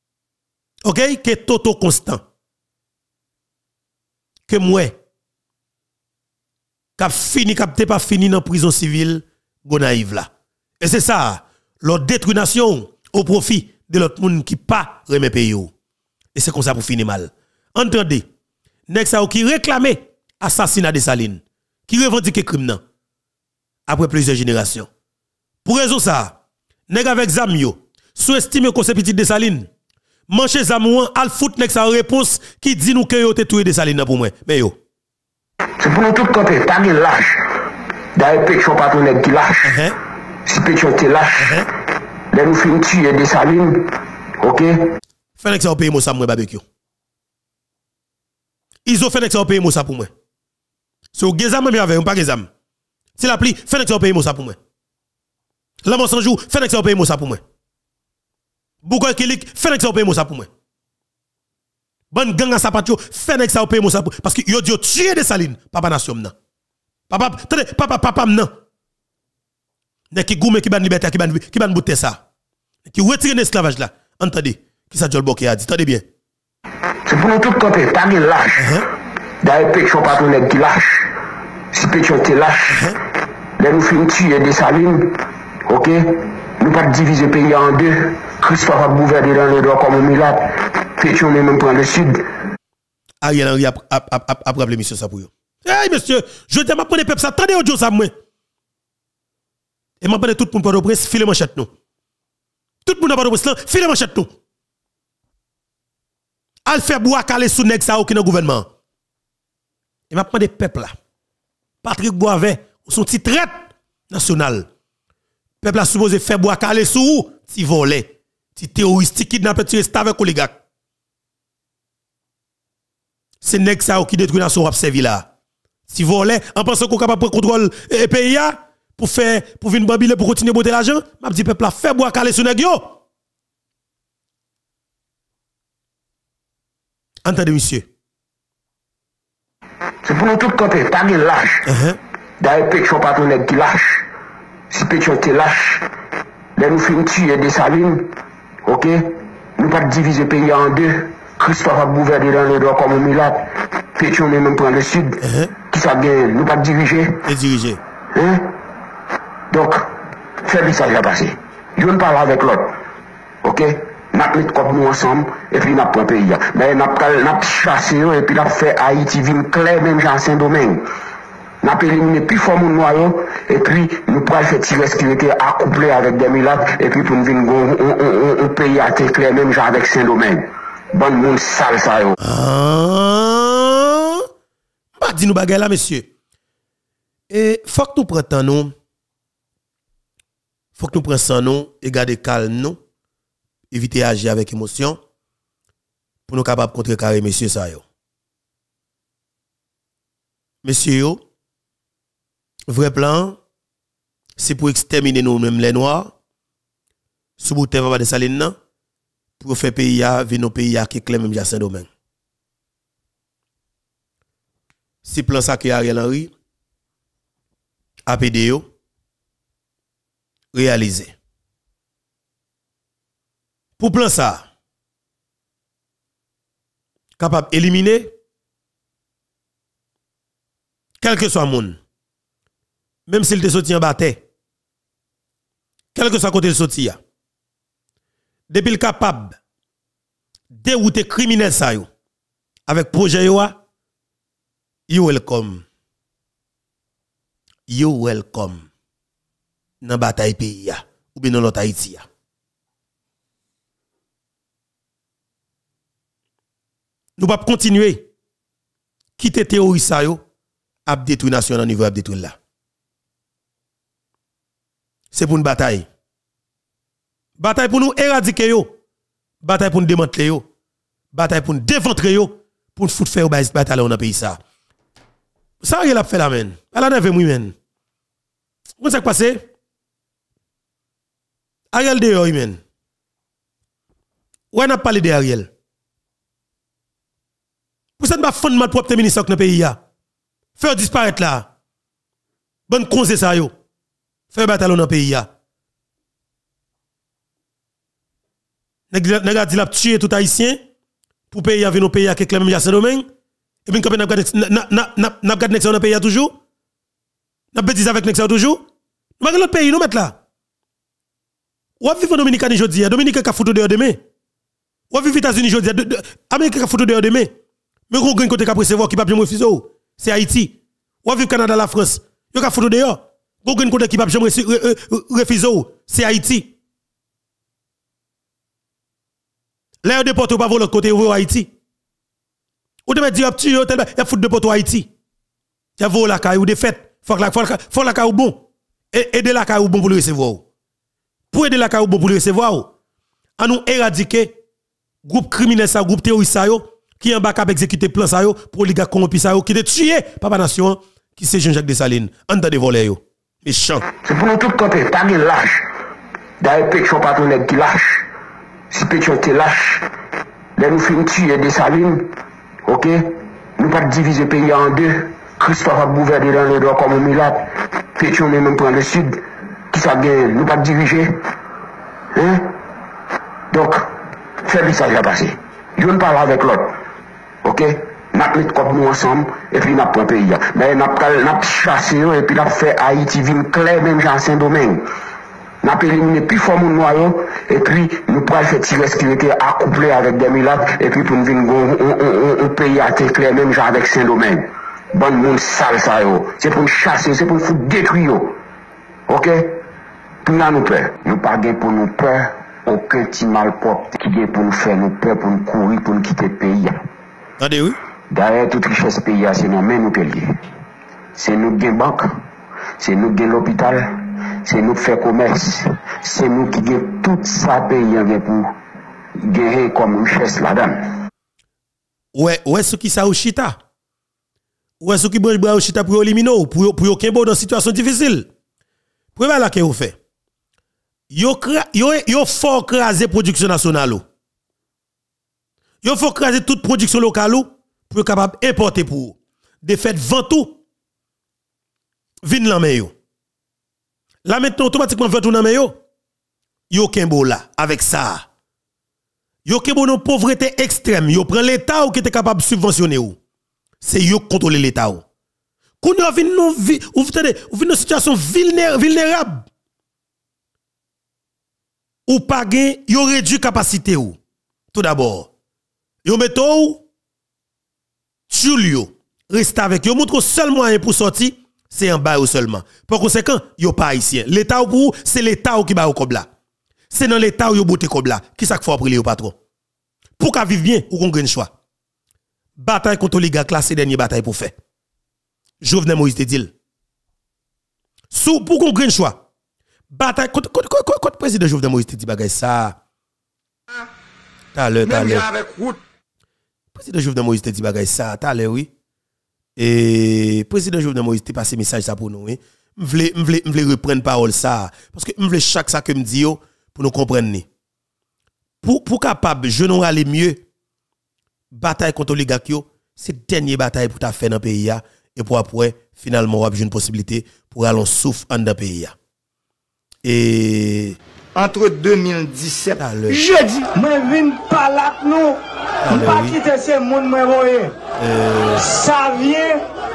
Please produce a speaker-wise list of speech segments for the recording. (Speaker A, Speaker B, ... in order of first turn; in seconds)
Speaker A: 0.8-2.2, 4.5-5.0, 7.0-10.3, 10.8-15.7, 16.3-18.2, 18.9-22.8, 23.9-24.9, 25.6-26.4, 26.9-29.7, 30.3-34.8, 39.6-40.0, 41.4-41.7, 45.4-46.6, 48.9-50.1, 51.1-52.5, 53.2-54.6, 55.8-57.4, 58.8-60.5, 62.1-66.3, 67.1-68.5, 70.1-72.2, 72.9-76.0, 78.6-78.8, 82.7-83.0, 93.2-98.1, 100.0-101.7, 102.8-104.3, 106.7-108.7, 110.1-110.9, 111.8-114.7, 115.6-120.6, 123.4-125.3, 125.9-133.0, 137.2-137.8, 141.7-142.0, 155.2-155.5, 157.2-157.8, 182.2-184.2, 185.0-186.1, 187.3-188.7, 190.8-192.8, 193.7-195.0, 196.3-197.8, 200.6-201.2, 202.7-203.4, 204.4-206.1, 207.4-208.5, 209.4-211.9, 215.0-216.3, 218.1-218.7, 220.5-221.1, 223.8-224.4, 227.2-228.1, 231.0-231.8, 233.1-234.2, 235.9-237.0, 238.5-239.3, 240.5-241.9, 242.7-243.6, 244.9-245.6, 247.7-248.7, 249.8-252.0, 257.2-258.0, 259.2-260.2, 260.9-262.3, 265.1-265.9, 267.4-268.7, 269.4-270.4, 271.1-274.4, 275.6-277.5, 278.8-279.4, 281.7-282.6, 284.5-285.5, 288.0-289.8, 290.6-291.5, 292.7-293.5, 294.3-295.3, 298.9-300.6, 301.3-303.1, 303.7-306.3, 307.5-308.6, 309.2-310.2, 311.8-314.0, 314.9-317.3, 317.9-326.5, 329.8-331.5, 332.9-334.9, 335.8-340.4, 341.3-342.7, 343.4-344.3, 345.1-353.8, 407.4-407.8, 422.1-423.6, 424.8-428.3, 429.1-429.9, 431.1-434.0, 435.8-440.6, 442.2-442.9, 444.2-445.8, 446.7-448.2, 449.4-453.2, 453.8-455.0, 455.8-459.4, 462.1-464.2, 464.7-465.3, 466.0-466.8, 468.3-476.3, 476.9-479.4, 480.2-481.5, 482.6-484.5, 485.6-486.5, 488.1-489.2, 489.9-492.8, 494.5-495.3, 496.7-498.7, 499.6-507.4, 508.6-510.4, 511.5-518.9, 520.0-521.0, 522.8-523.2, 525.8-526.4, 528.0-528.7
Speaker B: 35.8-37.4, 38.1-39.7, 40.5-41.6, 42.3-44.8, 77.0-78.8, 79.4-81.1, 81.7-82.9, 83.6-92.3, 140.0-141.6, 142.4-144.0, 144.7-145.8, 146.6-148.1, 148.7-157.2, 158.1-158.5, 159.5-159.9, 160.4-162.7, 163.4-170.8, 171.6-182.2, 354.0-355.6, 356.4-358.1, 358.7-359.9, 360.6-362.1, 362.6-371.2, 372.1-372.5, 373.5-373.9, 374.4-376.7, 377.4-384.8, 385.6-398.4, 399.1-399.6, 400.2-406.8, 408.1-410.4, 411.1-412.2, 412.8-418.5, 419.2-420.9
Speaker C: 494.8-495.8, 521.3-527.8, 528.6-529.6